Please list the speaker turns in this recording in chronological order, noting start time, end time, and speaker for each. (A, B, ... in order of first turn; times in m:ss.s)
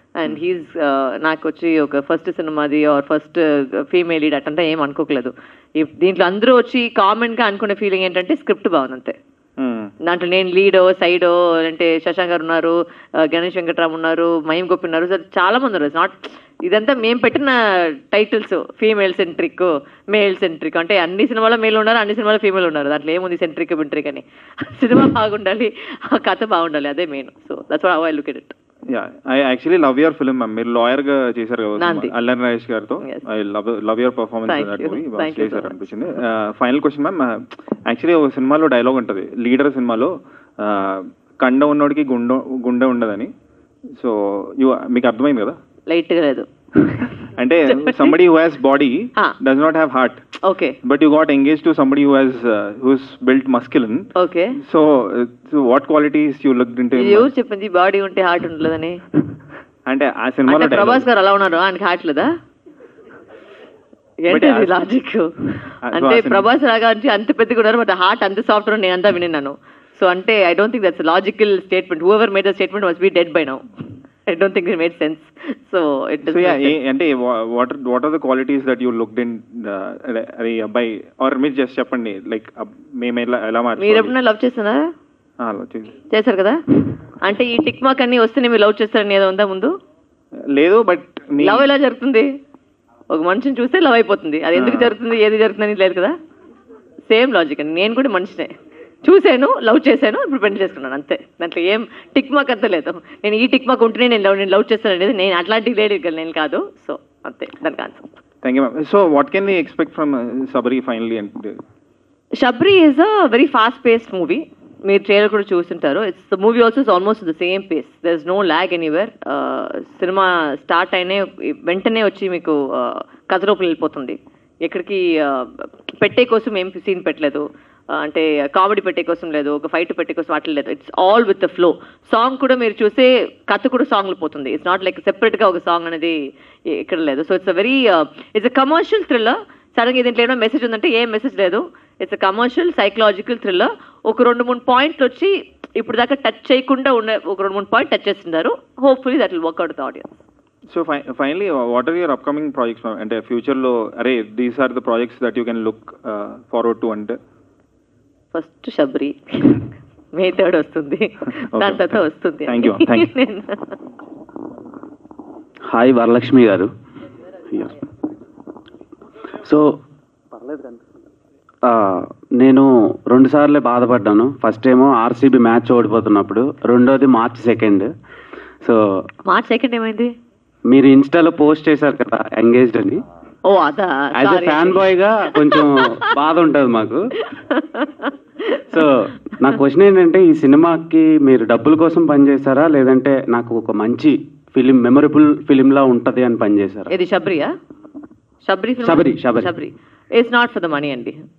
0:00.2-0:09.1 A
0:09.6-0:09.9 B
0:10.0-0:17.5 A
0:18.1-0:28.5 A
0:28.9-0:43.3 B
0:31.8-0:32.1 A
0:34.5-0:35.9 A
0:44.0-0:45.6 B
0:45.9-0:47.2 A
0:47.4-0:50.2 B
0:47.7-0:48.1 A
0:50.4-0:50.8 A
0:50.8-0:54.1 B
0:54.2-0:54.6 A
0:54.6-0:57.3 B
0:57.0-0:59.0 A
0:59.9-1:01.0 B
1:00.5-1:02.3 A
1:04.2-1:13.6 A
1:04.3-1:04.8 B
1:05.8-1:06.5 B
1:14.3-1:16.7 A
1:16.3-1:24.1 B
1:23.8-1:24.9 A
1:25.4-1:26.0 B
1:26.1-1:29.7 A
1:30.6-1:31.7 B
1:31.4-1:32.3 A
1:33.1-1:36.1 A
1:34.5-1:34.9 B
1:37.1-1:38.5 A
1:39.0-1:48.0 A
1:48.4-1:51.6 B
1:52.4-2:16.2 A
2:16.7-2:30.2 A
2:30.7-2:37.2 B
2:38.3-2:43.7 A
2:41.6-2:43.1 B
2:45.7-2:46.7 C
2:47.5-2:47.8 C
2:50.3-2:50.8 C
2:51.6-2:57.9 C
2:58.6-2:59.0 C
2:59.3-3:00.1 A
3:00.7-3:03.0 C
3:03.4-3:04.8 A
3:04.1-3:07.1 C
3:05.4-3:06.0 A
3:07.5-3:08.6 A
3:08.7-3:16.9 C
3:16.9-3:17.5 A
3:18.4-3:21.2 A
3:18.8-3:19.5 C